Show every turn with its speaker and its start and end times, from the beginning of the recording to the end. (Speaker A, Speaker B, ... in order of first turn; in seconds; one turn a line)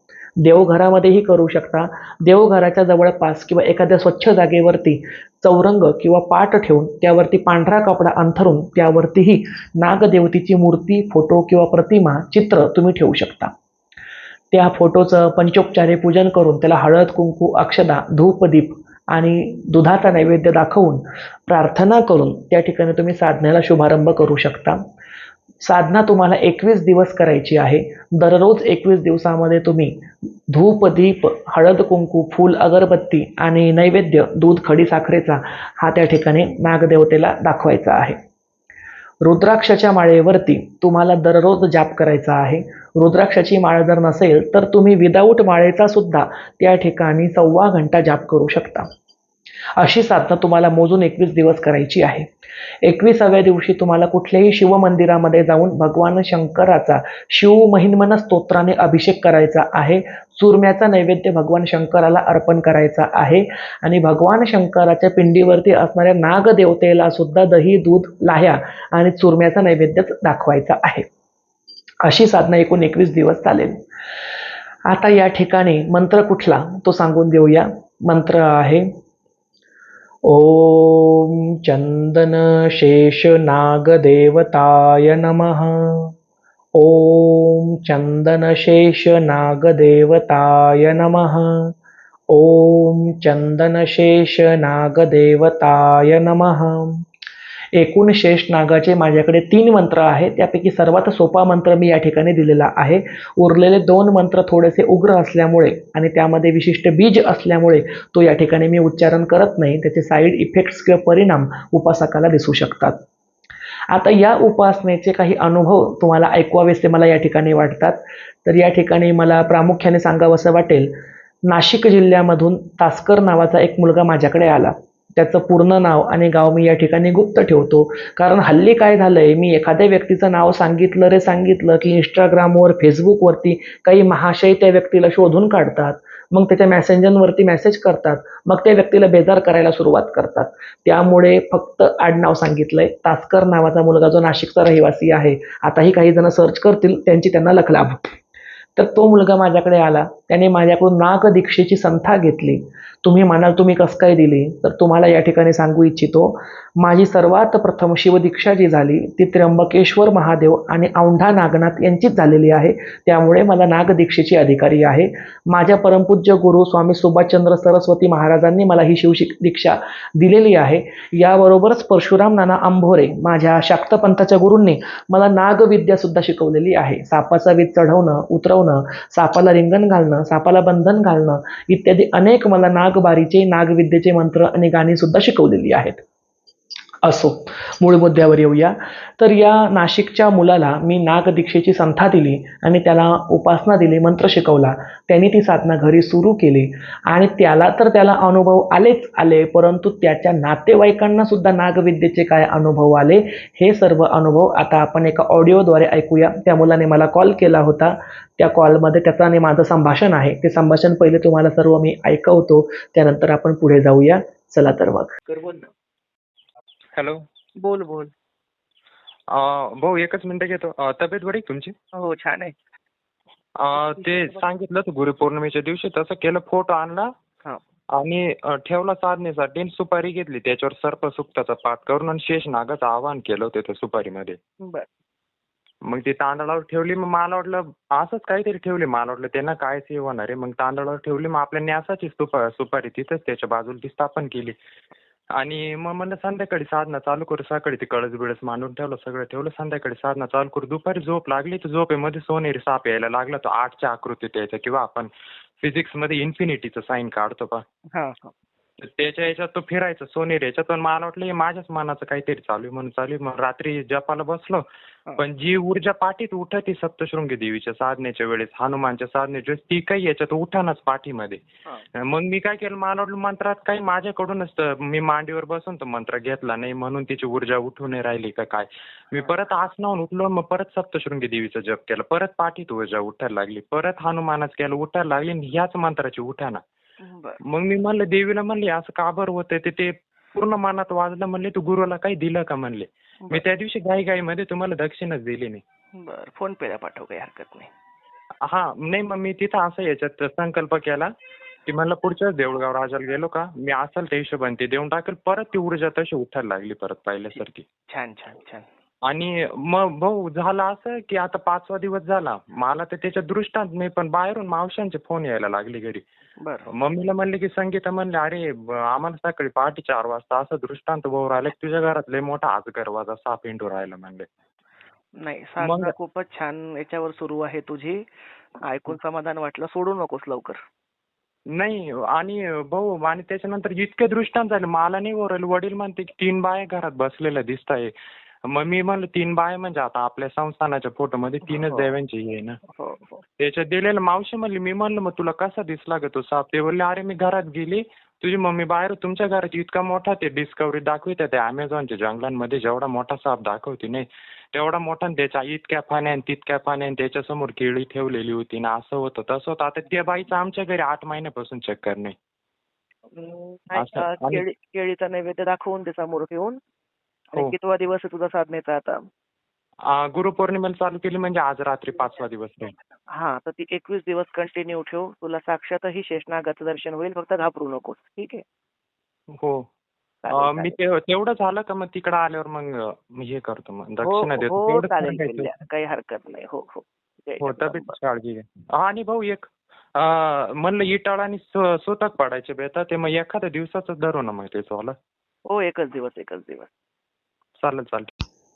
Speaker A: 0.4-13.5
Speaker A: 14.5-24.8
Speaker A: 25.6-30.0
Speaker A: 30.5-38.2
Speaker A: 39.2-48.9
Speaker A: 49.8-52.3
Speaker A: 52.8-71.0
Speaker A: 72.0-73.8
Speaker A: 74.9-78.9
Speaker A: 80.2-86.1
Speaker A: 86.7-91.7
Speaker A: 92.3-97.0
Speaker A: 97.7-113.0
Speaker A: 113.9-120.9
Speaker A: 121.5-148.1
Speaker A: 148.8-186.0
Speaker A: 187.0-215.1
Speaker B: 215.3-215.6
Speaker C: 216.9-217.2
Speaker B: 217.6-218.1
Speaker C: 219.3-221.7
Speaker B: 221.9-222.5
Speaker C: 223.6-227.1
Speaker B: 223.9-224.4
Speaker C: 227.9-234.4
Speaker C: 235.9-244.6
Speaker C: 245.4-257.6
Speaker B: 257.9-258.3
Speaker C: 258.8-264.6
Speaker C: 265.2-271.4
Speaker C: 272.0-286.6
Speaker B: 287.0-287.4
Speaker C: 287.5-295.6
Speaker B: 296.0-297.7
Speaker C: 298.5-301.1
Speaker C: 301.7-307.6
Speaker B: 307.9-308.6
Speaker C: 309.1-316.0
Speaker C: 316.7-324.3
Speaker B: 325.2-328.0
Speaker C: 325.6-325.9
Speaker B: 328.6-330.6
Speaker C: 331.6-337.9
Speaker C: 338.5-342.6
Speaker B: 341.5-341.9
Speaker B: 342.8-343.1
Speaker C: 343.4-362.1
Speaker B: 363.2-366.6
Speaker C: 363.7-364.4
Speaker B: 367.3-369.0
Speaker C: 369.9-372.8
Speaker B: 373.1-378.4
Speaker C: 379.4-379.7
Speaker B: 380.2-380.7
Speaker C: 380.3-385.5
Speaker B: 384.0-387.9
Speaker C: 387.4-394.9
Speaker B: 395.5-396.7
Speaker C: 397.6-398.1